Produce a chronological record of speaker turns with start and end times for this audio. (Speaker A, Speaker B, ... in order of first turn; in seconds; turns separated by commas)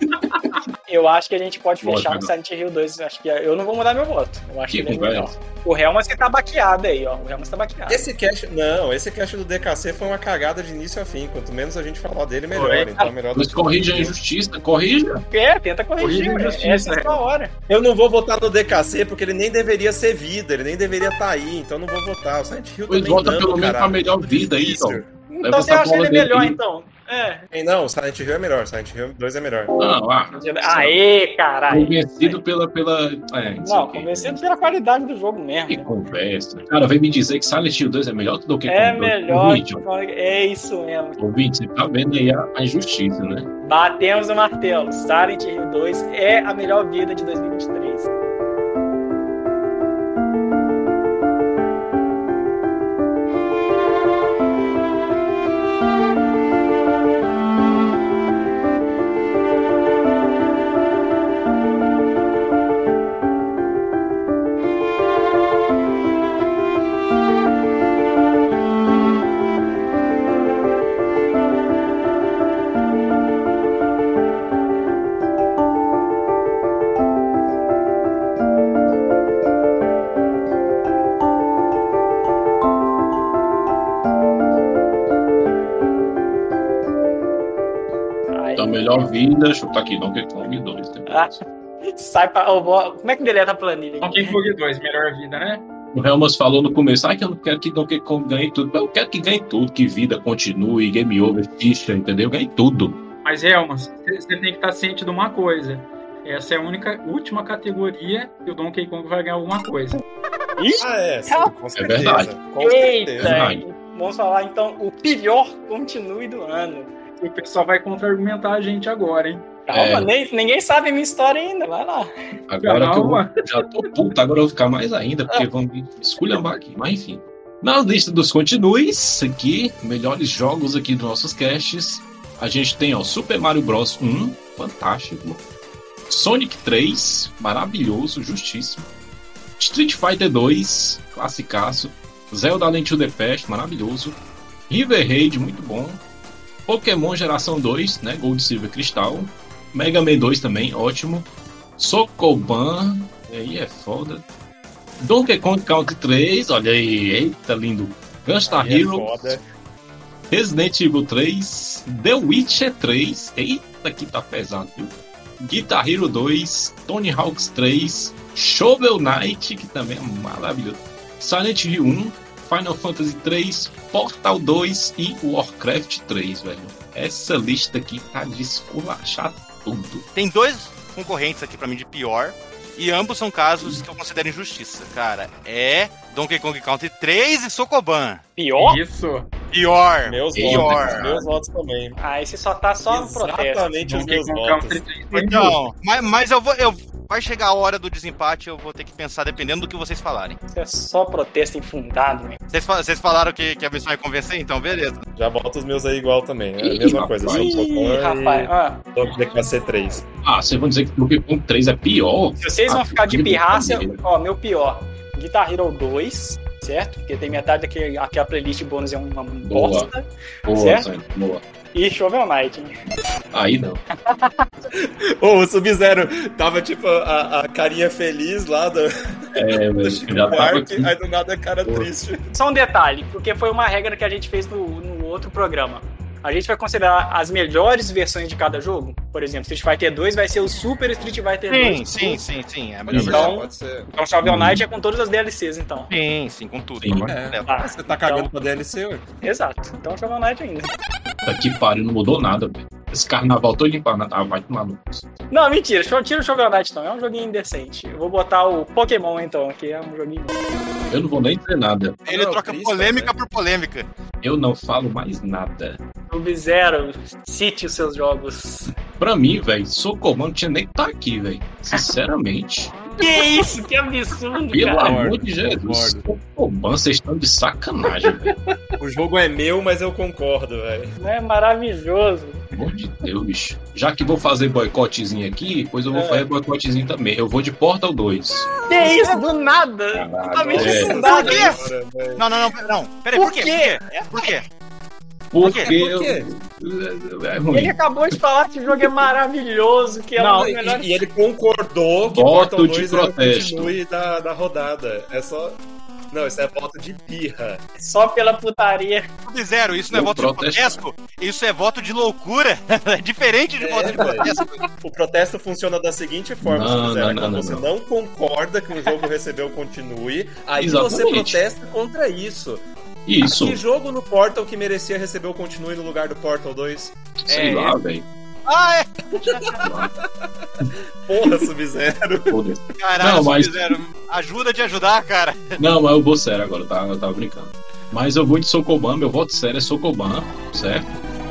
Speaker A: 0.8-8.1, Speaker B: 1.8-2.3, Speaker B: 4.7-5.3, Speaker C: 7.9-14.2, Speaker D: 12.5-13.0, Speaker B: 13.3-15.2, Speaker A: 15.3-17.5, Speaker D: 16.0-17.2, Speaker C: 17.7-25.1, Speaker B: 22.9-26.6, Speaker A: 25.3-27.5, Speaker C: 27.5-29.7, Speaker B: 29.8-31.0, Speaker A: 30.3-32.4, Speaker B: 31.7-34.4, Speaker A: 33.6-35.9, Speaker B: 35.7-39.8, Speaker A: 38.7-41.2, Speaker B: 41.2-43.5, Speaker A: 43.6-48.1, Speaker A: 88.3-89.1, Speaker B: 88.5-91.3, Speaker A: 91.1-94.4, Speaker D: 94.0-95.6, Speaker B: 95.9-103.0, Speaker D: 103.2-110.0, Speaker A: 110.6-111.5, Speaker C: 110.8-113.4, Speaker B: 111.8-112.3, Speaker A: 112.6-116.9, Speaker B: 113.2-113.6, Speaker D: 117.2-119.6, Speaker A: 119.6-122.1, Speaker B: 119.7-120.1, Speaker B: 122.5-135.4, Speaker D: 122.6-123.4, Speaker B: 136.1-138.9, Speaker B: 139.6-144.2, Speaker B: 144.7-146.0, Speaker B: 146.7-154.2, Speaker B: 155.0-159.4, Speaker C: 158.4-159.4, Speaker B: 160.3-180.1, Speaker E: 180.1-188.2, Speaker A: 188.4-188.8, Speaker D: 188.6-189.3, Speaker E: 189.5-191.2, Speaker C: 190.0-192.0, Speaker B: 190.3-191.2, Speaker A: 192.0-193.7, Speaker C: 192.8-194.8, Speaker D: 193.8-195.6, Speaker E: 195.1-200.4, Speaker A: 200.5-202.4, Speaker E: 202.5-205.0, Speaker C: 205.1-210.0, Speaker B: 206.6-207.7, Speaker A: 207.2-208.8, Speaker B: 210.2-214.0, Speaker A: 212.4-220.9, Speaker B: 219.4-219.9, Speaker B: 220.4-221.4, Speaker A: 221.7-222.7, Speaker B: 223.3-223.8, Speaker A: 224.1-224.5, Speaker C: 224.8-232.3, Speaker B: 229.3-230.9, Speaker A: 232.3-242.2, Speaker E: 241.5-243.3, Speaker C: 242.9-243.9, Speaker A: 243.0-245.9, Speaker B: 244.2-244.6, Speaker E: 245.9-247.5, Speaker B: 246.8-247.1, Speaker C: 247.0-249.0, Speaker A: 247.4-248.3, Speaker A: 249.2-250.7, Speaker B: 251.2-255.1, Speaker A: 255.3-260.4, Speaker B: 260.9-262.0, Speaker E: 262.1-263.9, Speaker C: 262.1-263.1, Speaker B: 264.2-265.8, Speaker A: 266.1-268.7, Speaker B: 269.0-272.7, Speaker A: 273.0-275.0, Speaker B: 274.5-278.4, Speaker C: 274.8-276.0, Speaker C: 278.8-281.0, Speaker A: 281.0-282.5, Speaker B: 282.5-288.5, Speaker A: 285.9-286.2, Speaker A: 288.7-291.6, Speaker B: 289.9-291.4, Speaker C: 290.5-292.2, Speaker E: 291.0-291.6, Speaker E: 292.1-294.5, Speaker A: 293.1-294.3, Speaker B: 295.3-297.8, Speaker C: 295.4-296.3, Speaker E: 295.4-295.7, Speaker A: 297.5-301.0, Speaker C: 300.1-305.6, Speaker B: 302.1-303.8, Speaker C: 306.1-307.6, Speaker A: 307.8-309.1, Speaker E: 309.3-314.6, Speaker B: 309.9-310.8, Speaker C: 313.6-322.6, Speaker B: 316.4-317.6, Speaker B: 320.6-321.4, Speaker B: 323.1-323.6, Speaker C: 323.2-326.9, Speaker B: 327.2-328.1, Speaker E: 327.3-327.8, Speaker E: 328.5-329.6, Speaker C: 329.2-329.7, Speaker B: 329.6-329.9, Speaker C: 330.2-332.4, Speaker B: 332.3-333.7, Speaker E: 332.8-335.6, Speaker B: 335.6-340.9